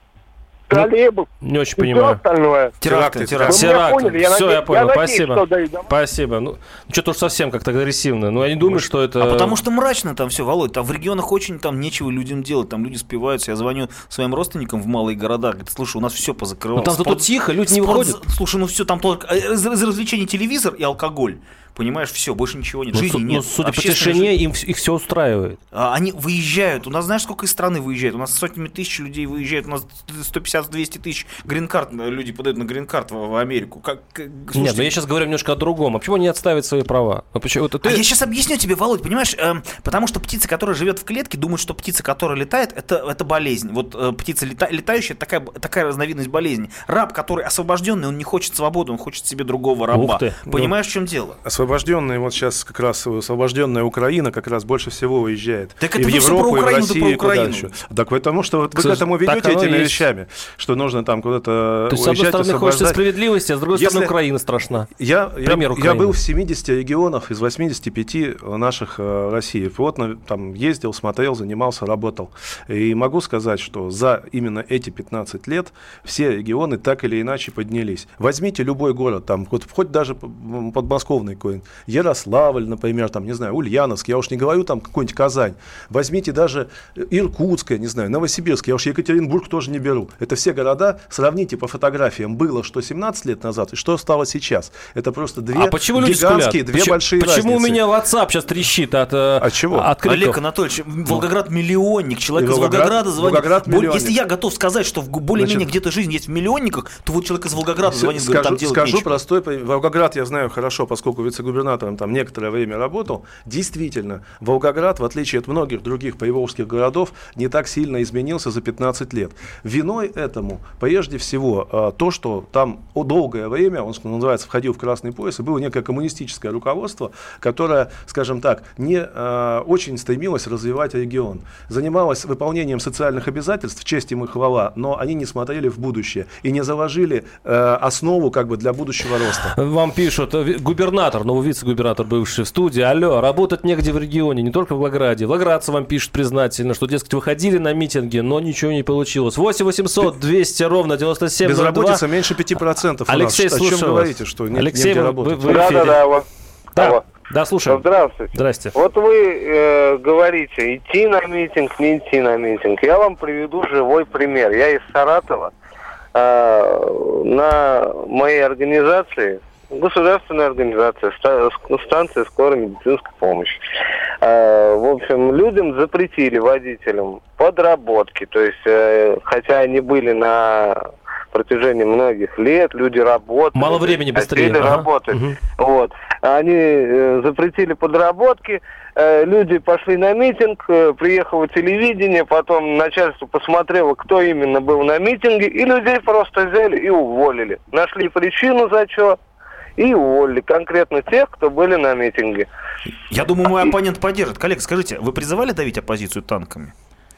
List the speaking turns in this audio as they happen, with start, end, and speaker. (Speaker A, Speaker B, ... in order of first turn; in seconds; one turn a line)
Speaker A: 0.7-2.8
Speaker B: 1.4-2.2
Speaker C: 2.8-3.5
Speaker D: 2.8-3.7
Speaker A: 3.5-5.9
Speaker B: 3.5-9.6
Speaker D: 9.2-24.3
Speaker B: 16.8-18.2
Speaker B: 22.9-25.6
Speaker D: 25.7-34.9
Speaker B: 34.5-38.0
Speaker D: 37.8-51.4
Speaker B: 49.9-50.4
Speaker C: 51.4-63.0
Speaker D: 55.8-57.7
Speaker B: 58.8-60.0
Speaker B: 61.9-64.9
Speaker C: 63.7-64.1
Speaker C: 64.9-97.8
Speaker B: 65.5-66.2
Speaker B: 95.5-100.4
Speaker C: 99.4-99.9
Speaker D: 100.0-109.1
Speaker C: 102.3-104.1
Speaker C: 105.3-105.7
Speaker C: 107.9-139.5
Speaker B: 139.5-152.0
Speaker C: 151.4-155.7
Speaker B: 153.1-156.0
Speaker E: 155.4-157.1
Speaker B: 156.8-158.8
Speaker E: 157.7-165.5
Speaker E: 166.1-173.6
Speaker E: 174.2-199.2
Speaker B: 183.6-185.4
Speaker E: 199.8-202.5
Speaker D: 203.1-206.7